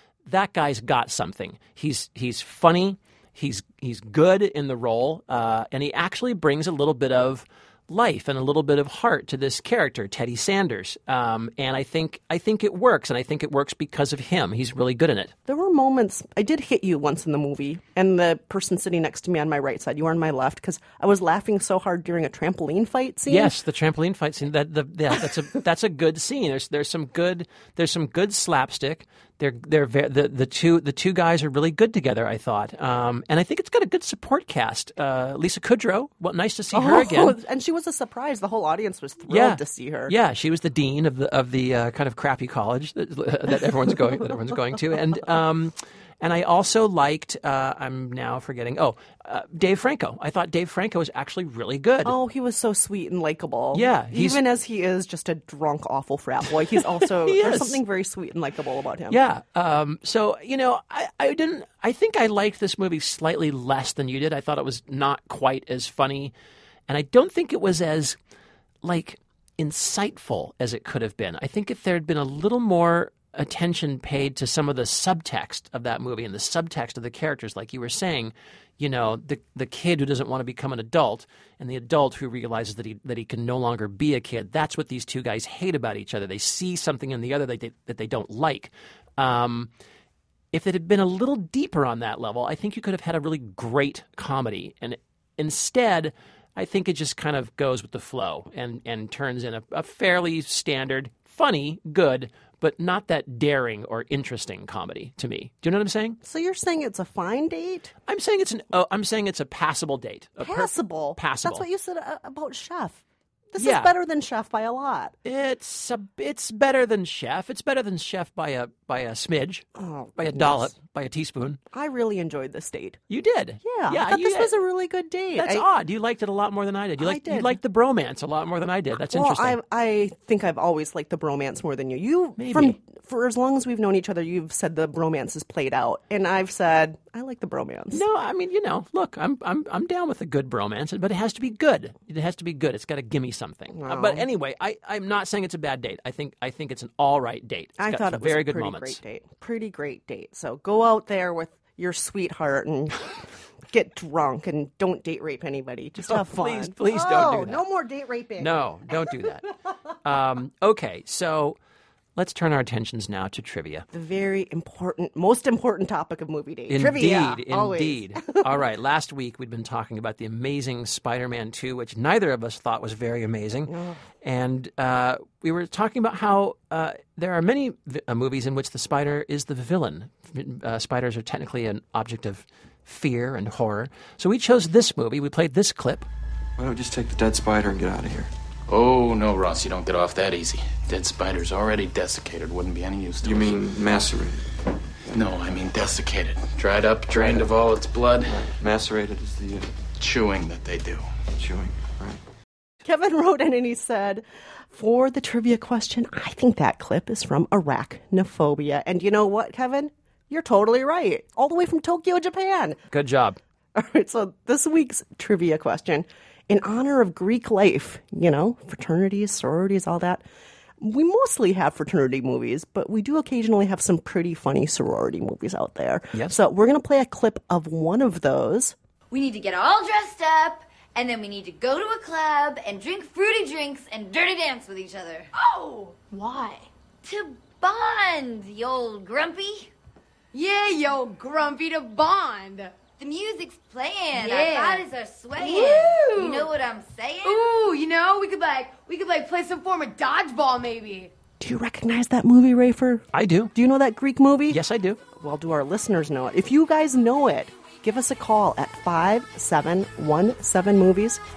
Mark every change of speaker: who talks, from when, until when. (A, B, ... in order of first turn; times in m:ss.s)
0:00.3-0:15.3 A
0:15.5-0:23.5 B
0:23.3-0:37.4 A
0:36.7-0:40.1 B
0:39.3-0:52.2 A
0:52.0-0:59.2 B
0:53.7-0:54.4 A
0:57.1-0:57.8 A
0:59.1-1:06.3 A
1:06.9-1:08.2 A
1:08.8-1:29.7 A
1:30.5-1:46.2 A
1:46.2-1:47.9 B
1:48.1-1:51.6 A
1:50.4-1:55.2 B
1:53.6-1:53.9 A
1:55.2-1:59.6 A
1:59.8-2:00.7 B
2:00.2-2:01.6 A
2:01.7-2:03.0 B
2:03.1-2:04.5 A
2:03.6-2:05.7 B
2:05.4-2:09.6 A
2:07.0-2:07.6 B
2:09.0-2:18.0 B
2:12.4-2:12.8 A
2:17.9-2:29.0 A
2:23.7-2:24.3 B
2:27.8-2:33.0 B
2:33.7-2:39.2 B
2:36.0-2:37.6 A
2:38.4-2:39.5 A
2:40.0-2:41.6 A
2:42.2-2:43.9 A
2:43.9-2:48.6 B
2:46.7-3:06.1 A
2:53.7-2:54.0 B
3:06.6-3:08.3 C
3:08.7-3:13.7 D
3:13.2-3:14.4 C
3:15.1-3:18.4 D
3:17.1-3:17.5 C
3:18.3-3:19.7 C
3:20.0-3:21.2 D
3:21.3-3:22.2 C
3:22.8-3:32.8 B
3:32.9-3:33.4 A
3:33.8-3:40.2 B
3:40.8-3:48.8 B
3:49.1-3:59.7 E
4:00.3-4:02.8 F
4:03.0-4:07.6 E
4:04.1-4:06.5 F
4:07.2-4:11.1 F
4:11.4-4:14.6 B
4:13.1-4:13.5 A
4:14.5-4:15.0 A
4:15.1-4:21.2 B